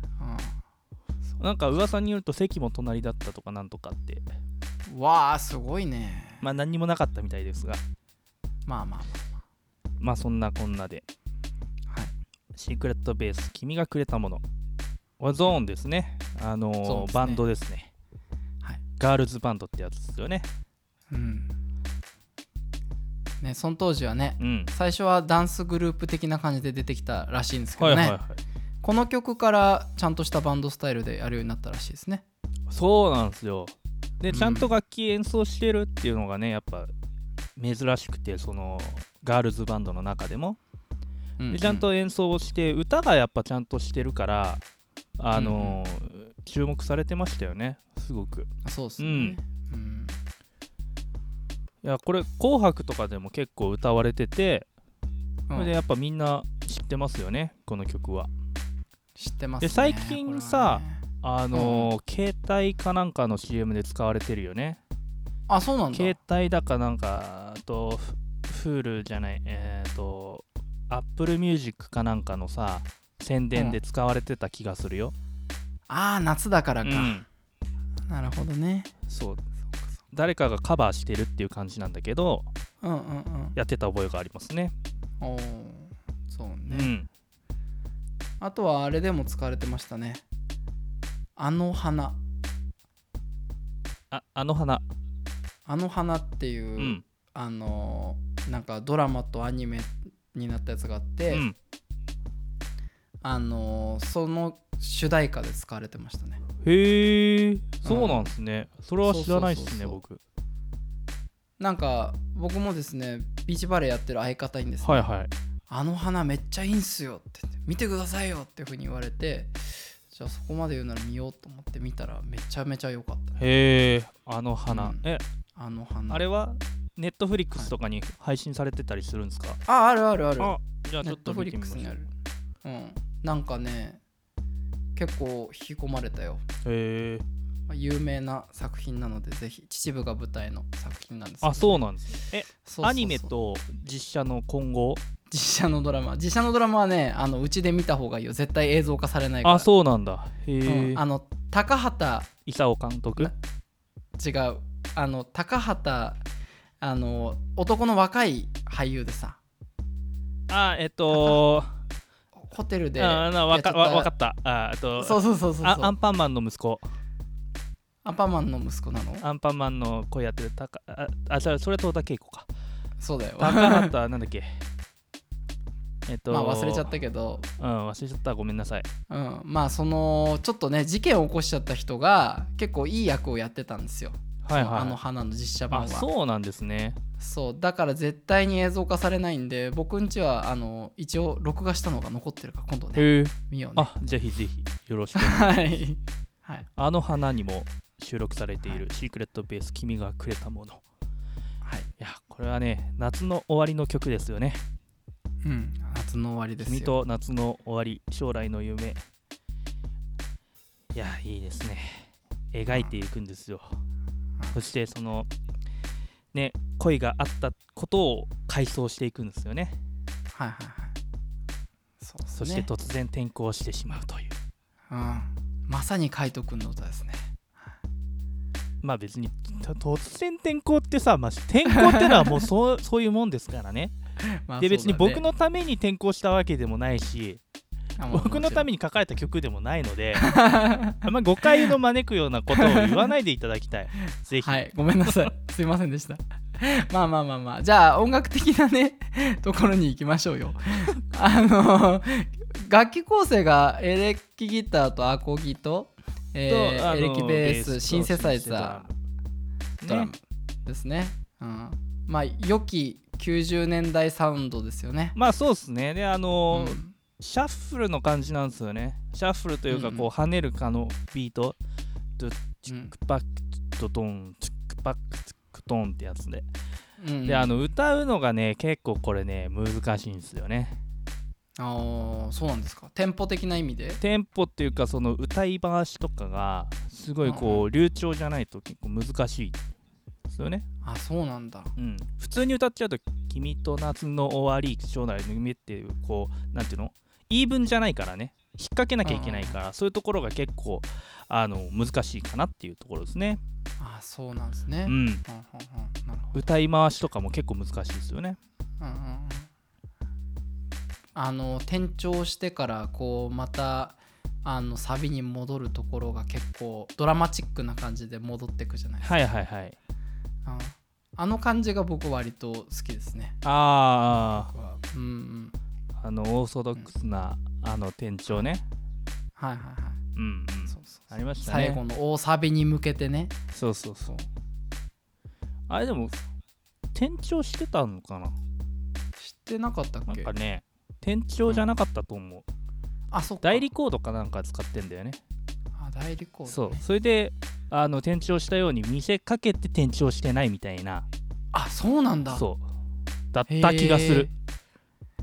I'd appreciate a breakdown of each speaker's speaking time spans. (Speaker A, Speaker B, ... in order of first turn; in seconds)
Speaker A: 0.2-0.6, 4.9-6.5, 8.7-9.3, 16.8-17.4, 21.1-21.5, 23.4-28.2, 28.8-32.2, 34.3-34.7, 41.4-41.9, 45.3-45.8, 48.6-50.2, 55.5-55.7, 59.1-61.9, 65.5-66.2, 73.5-73.8, 75.9-77.2, 78.1-78.9, 82.8-83.6, 85.2-86.9, 88.4-90.2, 91.3-92.2, 95.7-101.5, 103.2-106.4, 107.8-108.3, 109.0-110.0, 111.6-115.1, 115.7-123.4, 124.7-125.0, 125.5-126.2, 129.7-132.1, 132.6-134.0, 134.9-136.4, 137.7-141.8, 142.6-143.3, 145.3-149.7, 150.6-152.3, 154.2-156.2, 156.8-159.4, 161.1-161.4, 162.3-164.1, 164.9-165.9, 168.0-169.2, 173.0-173.9, 176.3-177.5, 179.1-186.1, 187.2-193.9, 195.1-196.7, 201.6-201.9, 205.4-206.9, 212.7-212.9, 220.3-220.9, 222.0-222.7, 224.9-227.3, 231.7-232.3, 234.2-235.2, 238.0-238.7, 240.2-241.7, 242.5-243.0, 244.3-258.9, 259.8-265.1, 266.5-266.9, 269.7-270.1, 272.7-272.9, 277.0-277.5, 281.6-284.0, 287.2-287.7, 290.8-291.7, 299.0-299.6, 303.8-306.4, 308.8-309.5, 311.1-319.1, 320.4-323.4, 324.1-325.5, 329.4-330.0, 330.7-333.3, 339.2-340.3, 343.1-343.7, 345.8-346.8, 351.5-352.4, 353.5-354.3
Speaker B: 1.4-4.2, 6.4-7.8, 10.0-11.0, 12.5-14.4, 15.2-17.9, 19.0-20.5, 24.4-24.7, 27.8-28.4, 32.7-36.9, 37.6-40.6, 41.5-44.6, 45.2-49.4, 51.8-54.7, 55.5-58.3, 59.6-64.8, 65.9-75.1, 76.8-77.2, 79.1-79.4, 80.1-82.5, 83.5-84.7, 86.7-87.1, 94.1-94.8, 96.8-97.0, 101.3-101.5, 106.6-110.2, 114.8-115.3, 123.4-125.2, 126.1-129.6, 130.4-132.0, 136.6-137.2, 141.4-145.0, 149.4-151.0, 152.4-153.3, 160.5-161.7, 163.0-166.9, 169.2-172.5, 173.4-174.6, 176.1-176.9, 177.6-178.9, 184.4-185.0, 185.7-187.0, 192.9-195.6, 196.8-200.8, 202.0-204.6, 206.6-209.0, 210.9-213.8, 214.5-215.3, 216.3-219.8, 222.3-224.3, 228.8-233.9, 234.6-237.4, 238.1-240.3, 241.0-245.3, 256.5-258.9, 259.8-260.1, 265.1-271.6, 272.2-276.4, 277.2-280.8, 284.0-289.6, 290.3-290.6, 291.8-303.4, 304.9-305.2, 306.3-308.4, 319.0-319.8, 323.4-324.5, 326.0-328.6, 330.1-331.8, 333.5-334.1, 335.7-336.1, 336.9-338.3, 340.1-342.4, 343.4-345.2, 346.5-351.1, 352.3-352.6, 353.3-354.3